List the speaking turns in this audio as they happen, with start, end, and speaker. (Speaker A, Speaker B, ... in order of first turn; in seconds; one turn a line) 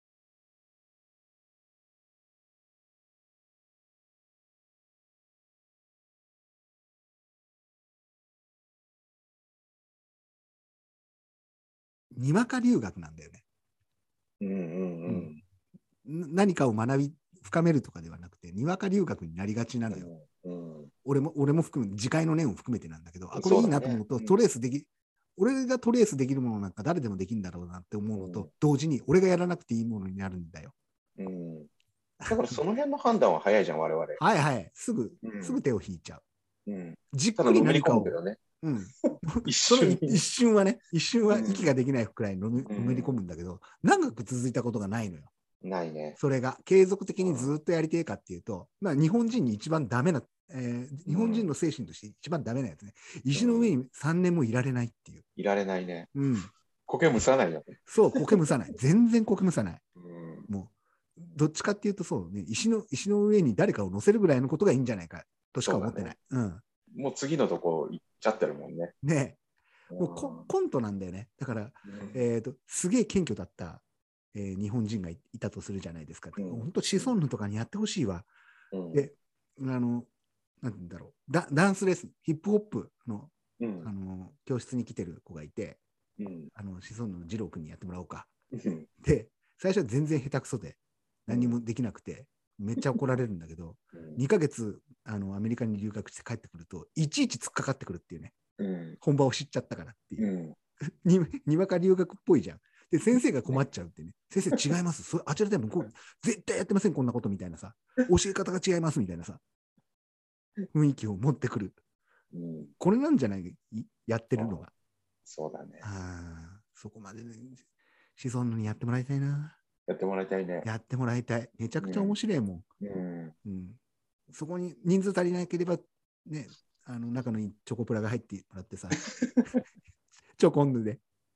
Speaker A: 12.1-13.4
Speaker B: 14.4-15.4
Speaker A: 16.0-20.1
Speaker B: 19.9-20.9
Speaker A: 21.0-30.7
Speaker B: 23.3-24.4
Speaker B: 28.1-28.5
Speaker B: 31.2-31.7
Speaker A: 32.2-32.6
Speaker B: 32.3-34.2
Speaker A: 34.2-36.2
Speaker B: 35.2-35.6
Speaker B: 36.7-38.4
Speaker A: 37.1-45.3
Speaker B: 39.4-40.2
Speaker B: 41.3-41.7
Speaker B: 42.7-43.2
Speaker B: 45.6-46.2
Speaker A: 46.2-55.2
Speaker B: 47.2-47.5
Speaker B: 51.0-51.5
Speaker B: 53.3-53.8
Speaker B: 55.4-56.1
Speaker A: 56.1-56.5
Speaker B: 56.9-58.2
Speaker A: 57.9-59.8
Speaker B: 60.0-60.5
Speaker A: 60.5-66.6
Speaker B: 65.6-66.1
Speaker B: 66.9-68.9
Speaker A: 69.0-69.4
Speaker B: 69.9-70.5
Speaker A: 70.0-78.3
Speaker B: 71.8-72.2
Speaker B: 76.4-77.1
Speaker B: 78.7-79.0
Speaker A: 78.9-80.1
Speaker A: 80.6-85.8
Speaker B: 83.6-83.9
Speaker B: 86.2-86.5
Speaker A: 86.5-88.3
Speaker B: 88.5-88.9
Speaker A: 89.0-98.3
Speaker B: 91.3-91.5
Speaker B: 93.9-94.2
Speaker B: 98.6-99.0
Speaker A: 99.0-100.3
Speaker B: 100.2-100.5
Speaker A: 101.0-109.4
Speaker A: 110.7-111.8
Speaker B: 112.3-112.7
Speaker A: 112.8-114.7
Speaker B: 114.3-114.6
Speaker B: 115.2-115.9
Speaker A: 115.8-117.6
Speaker A: 118.2-119.6
Speaker B: 119.9-120.7
Speaker A: 120.6-122.7
Speaker B: 121.8-122.2
Speaker B: 122.8-123.3
Speaker A: 123.4-129.0
Speaker B: 129.0-129.4
Speaker A: 130.3-131.0